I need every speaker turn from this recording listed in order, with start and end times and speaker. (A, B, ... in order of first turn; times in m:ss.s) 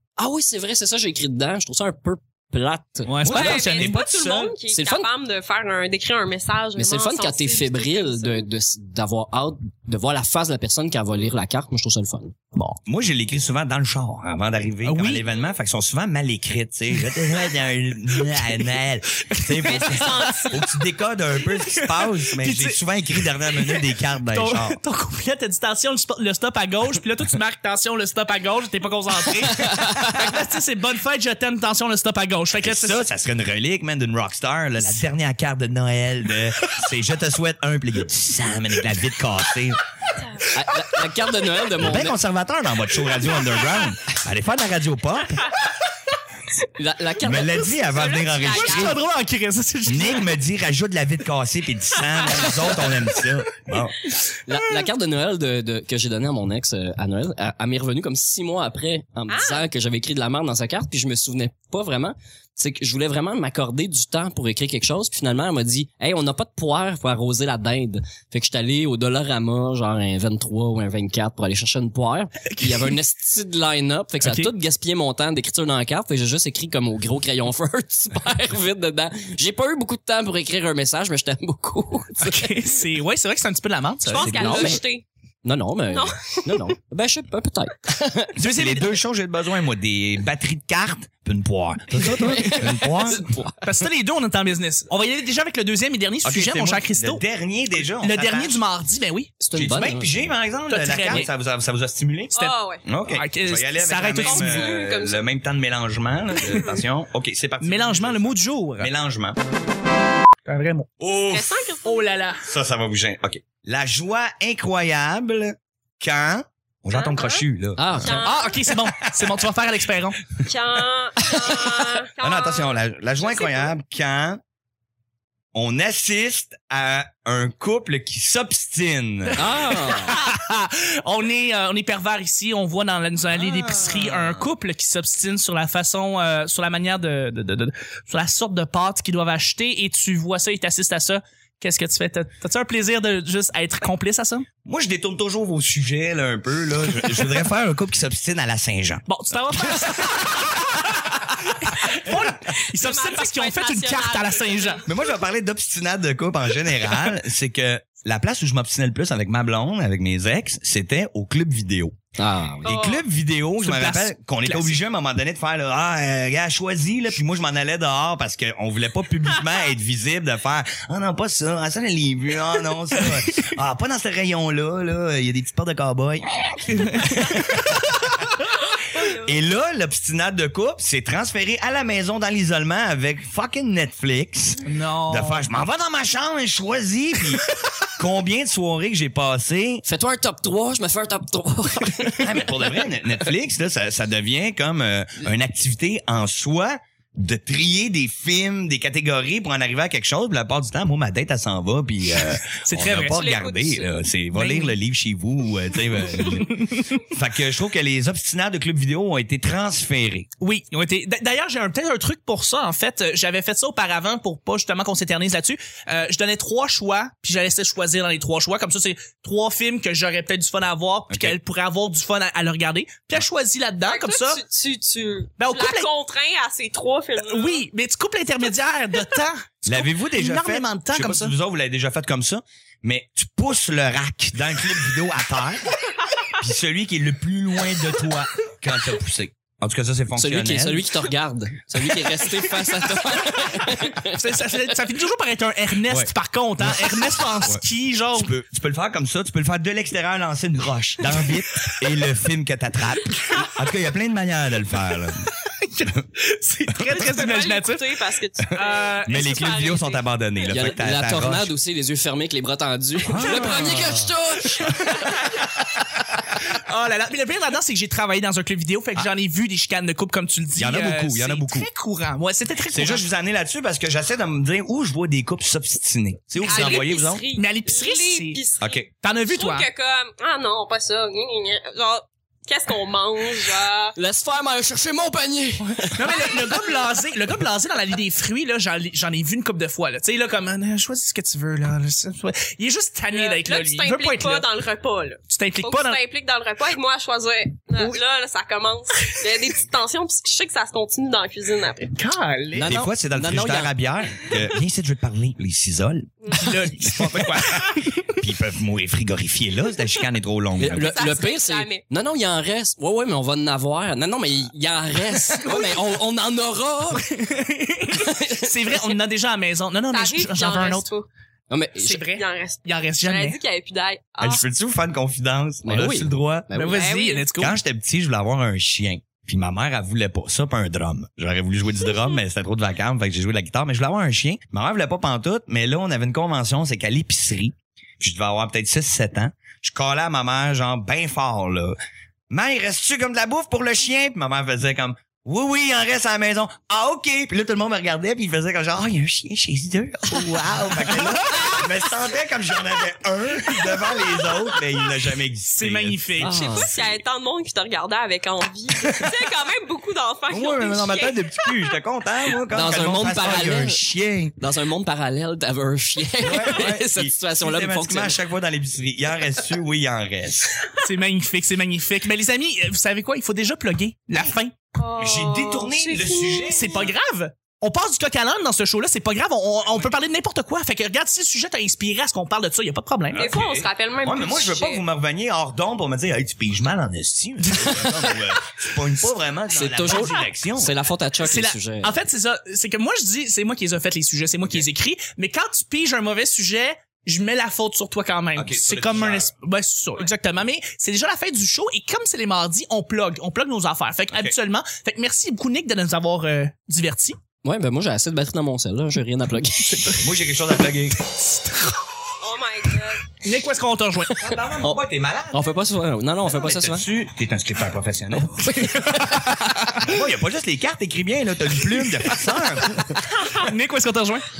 0:00.2-0:03.2 A
0:03.0-0:04.5 B
0:03.2-0:04.3 C
0:03.3-0:08.5 D
0:04.7-0:05.1 A
0:06.8-0:12.3 A
0:12.5-0:12.8 B
0:12.8-0:24.8 C
0:14.8-0:15.2 B
0:18.2-0:18.7 B
0:19.2-0:20.6 B
0:19.6-0:20.6 D
0:21.4-0:33.0 B
0:32.6-0:39.8 C
0:40.5-0:42.2 A
0:41.8-0:45.5 C
0:46.7-0:47.7 A
0:47.2-0:49.0 C
0:47.6-0:49.0 D
0:48.4-0:50.3 B
0:49.8-0:54.0 C
0:54.4-1:22.6 A
0:59.3-0:59.6 D
1:12.5-1:12.9 B
1:14.2-1:14.5 B
1:22.2-1:24.3 B
1:24.0-1:25.0 D
1:24.2-1:24.8 A
1:24.2-1:24.8 C
1:25.4-1:28.3 A
1:25.9-1:26.7 D
1:28.4-1:33.3 C
1:28.4-1:29.0 B
1:32.1-1:33.8 A
1:32.2-1:32.6 B
1:33.6-1:37.2 B
1:36.2-1:38.6 C
1:37.8-1:39.3 B
1:39.4-1:40.3 A
1:39.5-1:49.4 C
1:40.7-1:41.3 B
1:42.3-1:42.8 D
1:43.1-1:44.8 B
1:44.2-1:45.2 D
1:47.6-1:48.9 B
1:50.4-1:50.9 B
1:51.0-1:51.6 C
1:51.3-1:52.2 D
1:51.8-1:52.4 B
1:52.4-1:58.2 C
1:56.9-1:57.4 D
1:57.8-1:58.3 A
1:58.0-1:58.7 D
1:58.1-2:00.2 B
2:00.4-2:03.7 D
2:02.2-2:04.4 C
2:05.5-2:09.6 C
2:09.4-2:10.2 A
2:09.7-2:24.4 B
2:13.3-2:14.4 C
2:24.6-2:29.0 C
2:29.1-2:34.8 B
2:29.6-2:30.0 C
2:32.0-2:35.1 D
2:34.8-2:41.9 C
2:42.2-2:42.8 A
2:42.6-2:43.0 D
2:42.6-2:58.1 C
2:43.6-2:44.8 B
2:56.7-2:57.3 B
2:58.7-2:59.4 D
2:59.0-3:09.8 C
3:04.6-3:05.4 B
3:09.8-3:12.5 A
3:12.2-3:30.3 C
3:22.4-3:23.2 B
3:23.0-3:24.0 D
3:24.3-3:24.7 B
3:26.1-3:27.0 B
3:30.4-3:44.4 B
3:41.1-3:41.4 C
3:43.8-3:47.6 D
3:45.4-3:45.9 B
3:47.2-3:51.3 B
3:49.6-3:55.7 C
3:56.4-4:00.9 C
4:00.2-4:04.2 A
4:02.4-4:08.3 B
4:05.9-4:07.6 C
4:08.1-4:15.3 C
4:15.3-4:19.5 B
4:16.9-4:20.0 D
4:19.0-4:21.5 C
4:20.4-4:25.2 A
4:23.0-4:24.1 C
4:23.3-4:23.8 B
4:24.6-4:33.0 B
4:30.6-4:31.7 C
4:32.7-4:37.2 C
4:36.4-4:44.0 D
4:36.4-4:38.4 B
4:38.6-4:38.9 C
4:39.0-4:39.7 B
4:44.0-4:46.4 A
4:45.8-4:54.5 B
4:46.1-4:46.6 D
4:53.1-5:01.9 D
4:55.3-4:56.0 B
5:01.9-5:02.7 B
5:02.5-5:03.8 A
5:02.6-5:06.1 C
5:06.2-5:06.5 D
5:06.3-5:08.1 B
5:06.8-5:11.0 C
5:10.6-5:17.2 A
5:10.7-5:11.8 D
5:17.2-5:20.9 B
5:17.9-5:18.8 A
5:19.9-5:21.1 D
5:21.5-5:22.0 A
5:21.8-5:23.4 B
5:22.1-5:24.4 D
5:24.2-5:26.5 C
5:25.6-5:26.8 A
5:26.5-5:27.6 B
5:26.6-5:27.2 D
5:27.4-5:41.8 C
5:42.3-5:56.3 C
5:55.5-5:56.6 B
5:56.2-5:56.7 A
5:56.3-6:01.7 D
5:58.8-5:59.1 C
6:00.3-6:04.4 C
6:02.5-6:03.8 A
6:04.4-6:08.2 A
6:06.2-6:10.6 C
6:10.8-6:14.5 B
6:14.8-6:16.9 D
6:15.0-6:16.9 C
6:16.4-6:23.3 B
6:23.1-6:30.7 C
6:23.1-6:24.8 D
6:27.5-6:28.1 A
6:29.5-6:32.0 A
6:29.8-6:30.1 B
6:31.2-6:47.2 B
6:38.4-6:39.3 C
6:47.4-6:50.1 A
6:50.0-6:51.0 C
6:51.0-6:51.8 B
6:52.2-6:53.1 D
6:53.2-6:54.2 B
6:54.2-6:55.5 C
6:55.3-6:56.9 A
6:56.2-6:58.6 C
6:58.2-6:59.4 A
6:58.4-6:59.9 B
6:59.8-7:03.0 C
7:01.7-7:02.1 B
7:02.7-7:04.2 B